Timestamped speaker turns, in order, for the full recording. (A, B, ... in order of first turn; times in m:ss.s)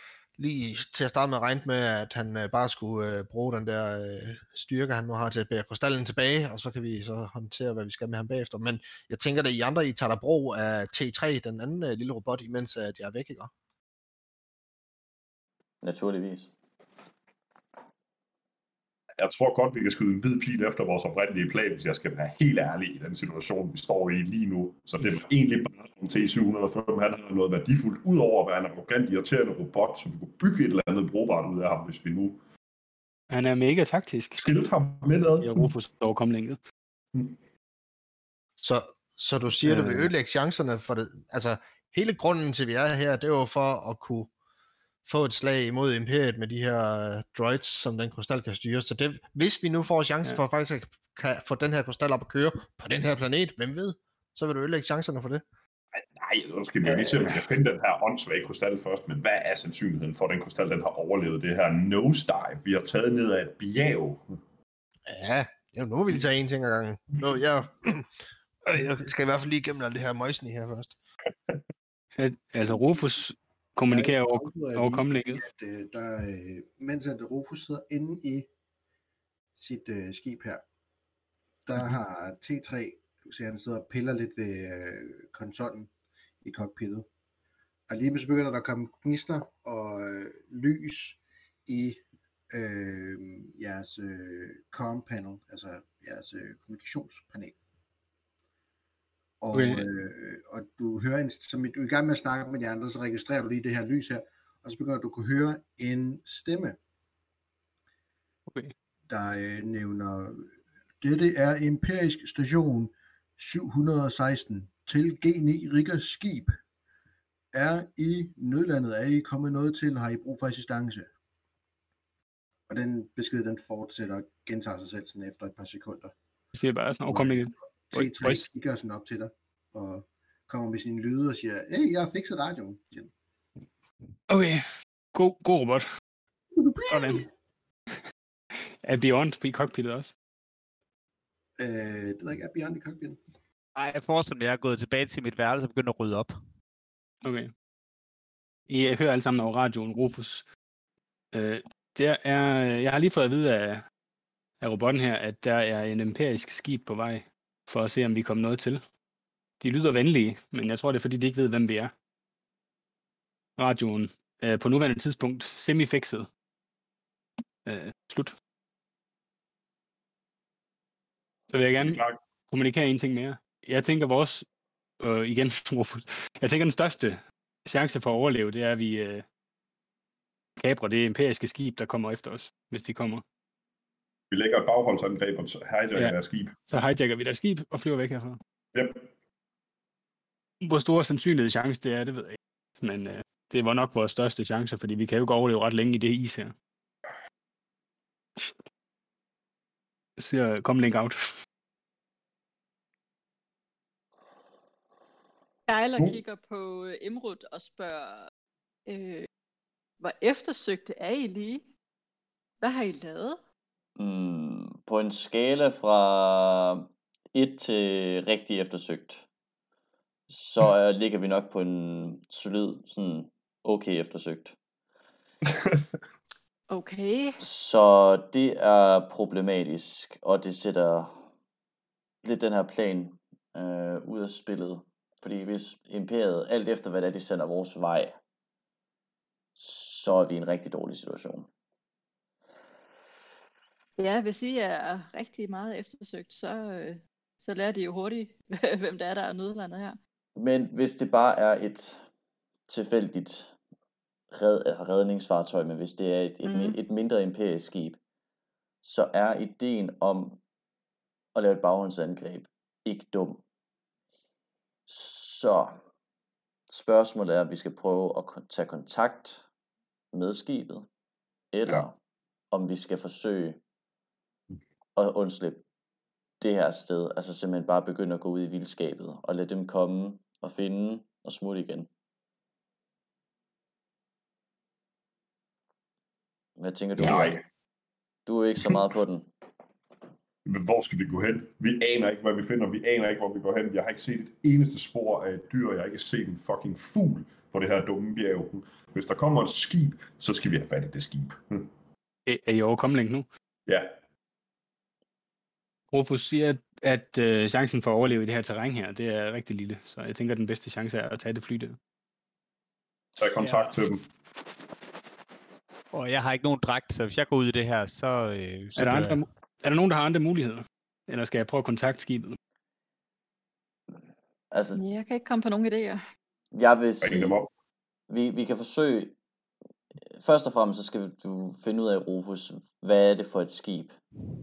0:00.4-0:13.5 A
0:15.8-0:16.5 B
0:19.2-0:32.4 C
0:33.3-0:34.4 D
0:34.4-0:35.7 C
0:35.4-0:36.6 D
0:38.6-0:44.3 A
0:39.6-0:40.1 D
0:45.0-0:55.4 A
0:56.0-1:04.2 C
0:56.9-0:57.5 D
1:05.1-1:08.1 A
1:08.6-1:10.9 A
1:12.2-1:15.4 D
1:13.9-1:18.5 E
1:19.6-1:20.6 E
1:21.7-1:25.9 E
1:26.4-1:27.1 E
1:27.9-1:32.0 E
1:32.5-1:37.6 E
1:39.4-1:46.8 E
1:39.5-1:39.8 D
1:49.1-1:50.5 E
1:51.0-1:56.6 E
1:57.5-2:01.1 E
2:02.7-2:06.1 E
2:06.5-2:08.5 D
2:07.1-2:13.1 E
2:14.3-2:14.6 D
2:15.1-2:15.8 D
2:16.5-2:17.2 E
2:16.9-2:17.3 D
2:18.8-2:20.1 D
2:21.6-2:23.2 E
2:23.8-2:26.3 F
2:27.2-2:27.5 D
2:28.7-2:30.4 D
2:31.3-2:33.8 D
2:34.6-2:38.8 D
2:39.6-2:41.9 D
2:43.6-2:46.3 D
2:47.6-2:48.3 D
2:51.5-2:54.4 D
2:51.8-2:52.2 C
2:55.0-2:59.2 D
3:00.6-3:03.2 D
3:04.3-3:06.5 C
3:06.7-3:08.4 D
3:08.7-3:09.0 C
3:10.6-3:16.5 D
3:20.2-3:21.2 D
3:25.7-3:28.3 G
3:28.9-3:29.3 G
3:30.0-3:31.7 G
3:32.6-3:33.4 G
3:34.0-3:39.2 B
3:40.3-3:44.5 B
3:46.7-3:47.4 G
3:47.4-3:51.2 B
3:52.2-3:58.2 B
3:59.6-4:01.5 B
4:04.0-4:10.0 G
4:10.4-4:12.0 B
4:12.7-4:13.5 B
4:14.3-4:18.0 B
4:16.4-4:16.8 G
4:18.8-4:20.4 B
4:21.3-4:23.4 B
4:24.9-4:25.8 B
4:26.7-4:29.4 B
4:30.1-4:30.9 B
4:31.5-4:31.9 B
4:32.5-4:33.6 B
4:35.0-4:35.6 B
4:36.4-4:41.9 B
4:46.6-4:47.4 B
4:47.0-4:47.4 C
4:48.2-4:49.3 B
4:50.4-5:01.7 C
5:02.2-5:03.3 D
5:03.7-5:03.9 C
5:05.9-5:11.8 D
5:13.2-5:14.0 C
5:13.4-5:13.7 F
5:15.9-5:19.2 F
5:18.8-5:22.4 D
5:24.5-5:24.8 B
5:24.7-5:26.0 G
5:26.5-5:27.4 B
5:27.0-5:27.5 C
5:28.1-5:29.2 B
5:30.1-5:34.0 B